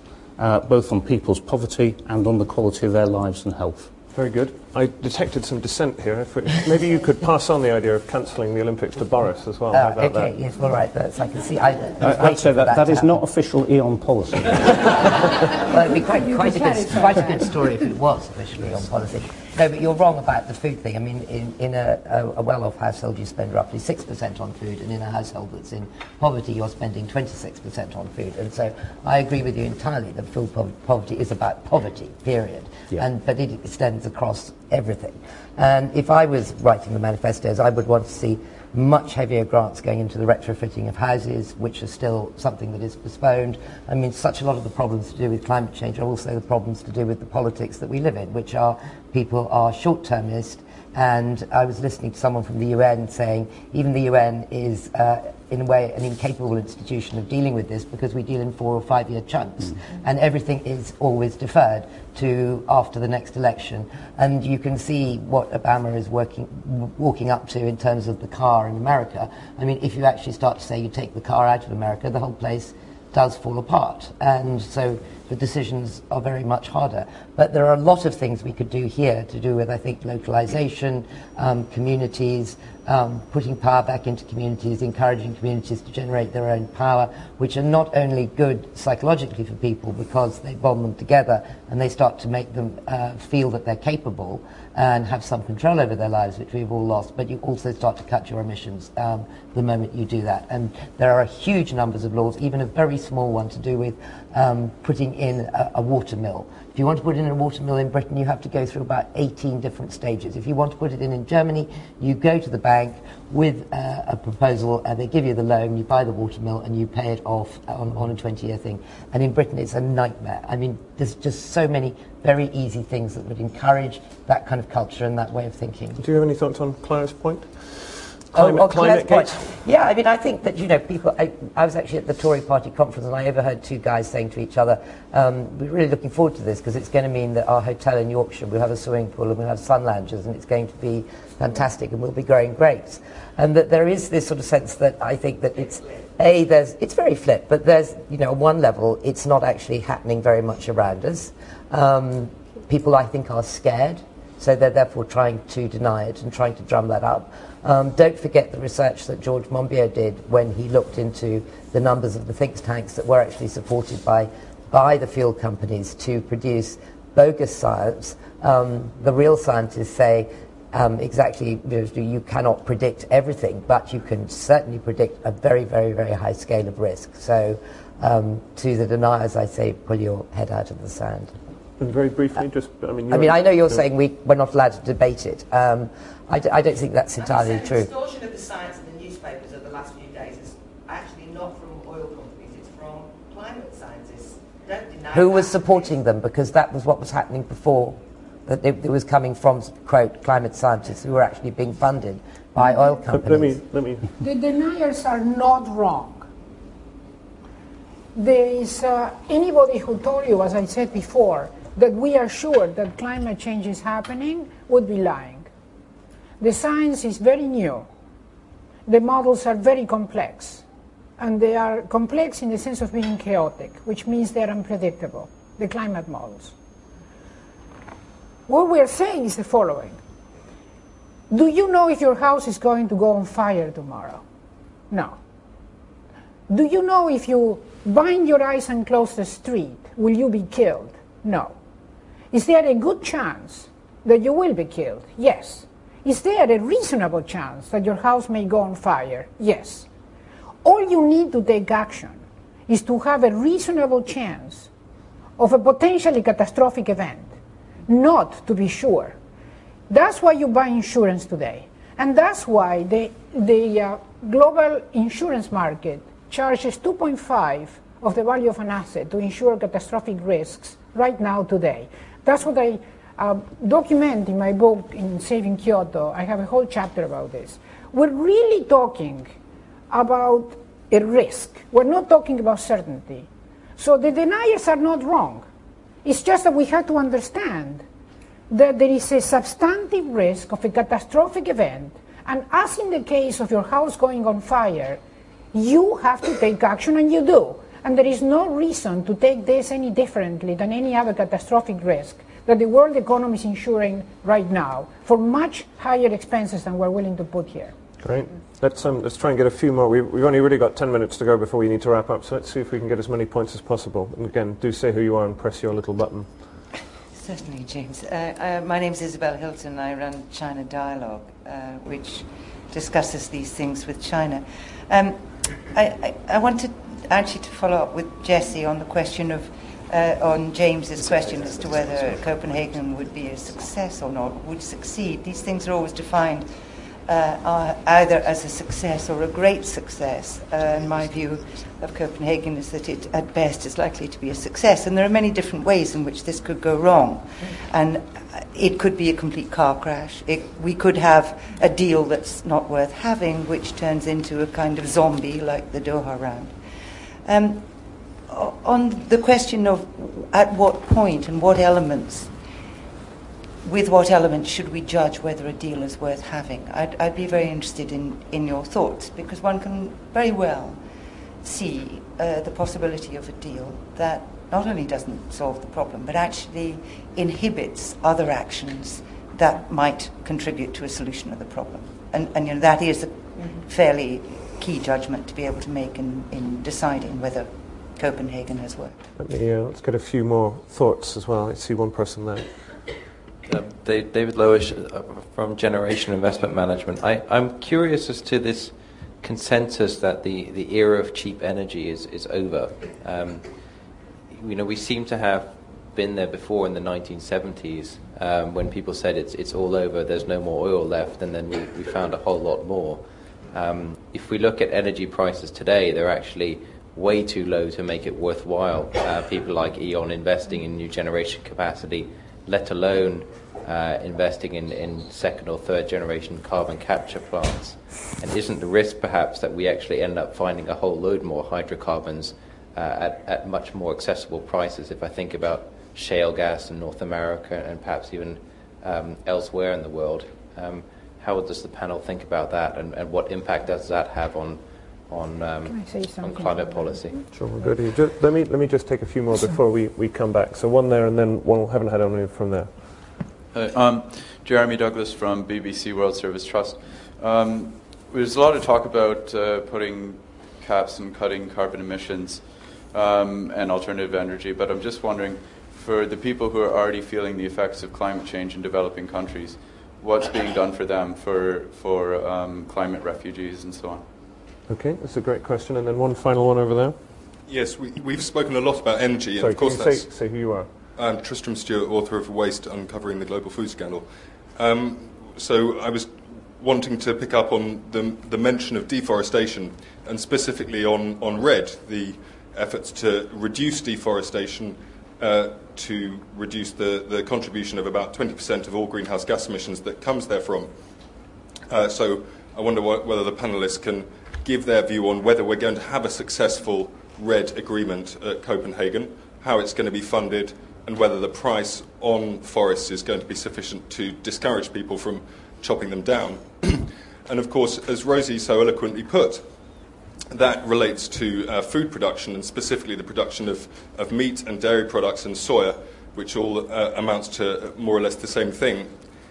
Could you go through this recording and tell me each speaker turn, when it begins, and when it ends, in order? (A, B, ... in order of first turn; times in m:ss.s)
0:00.4-0:03.9 A
0:04.1-0:10.3 B
0:09.7-0:13.2 C
0:12.0-0:15.3 A
0:15.5-2:06.0 C
2:06.0-2:09.5 B
2:08.3-3:01.3 C
3:01.8-3:03.8 B
3:03.1-3:07.9 C
3:07.2-3:15.4 D
3:15.1-3:23.6 C
3:23.1-3:24.1 B
3:24.2-3:26.3 E
3:28.2-3:35.5 E
3:36.4-3:37.9 E
3:38.9-3:40.6 E
3:41.2-3:46.5 E
3:48.5-3:50.0 E
3:51.3-3:54.2 E
3:54.9-3:55.2 E
3:56.5-4:01.5 E
4:02.3-4:09.9 E
4:10.6-4:14.7 E
4:15.4-4:17.3 E
4:17.9-4:19.2 E
4:19.9-4:39.3 E
4:39.9-4:45.4 E
4:46.0-4:47.8 E
4:48.5-4:55.0 E
4:55.5-5:07.8 E
5:08.0-5:16.4 B
5:17.1-5:36.5 F
5:37.1-5:56.6 F
5:57.2-5:57.7 F
5:58.3-6:02.3 F
6:03.6-6:10.8 F
6:11.4-6:29.0 F
6:29.2-6:32.5 B
6:33.4-7:27.2 G
7:25.6-7:27.7 E
7:27.3-7:32.8 B
7:33.5-7:54.0 H
7:54.7-7:57.0 B
7:57.5-8:00.1 I
7:59.4-8:00.7 B
8:01.0-8:20.7 I
8:21.7-8:39.5 I
8:40.3-8:48.9 I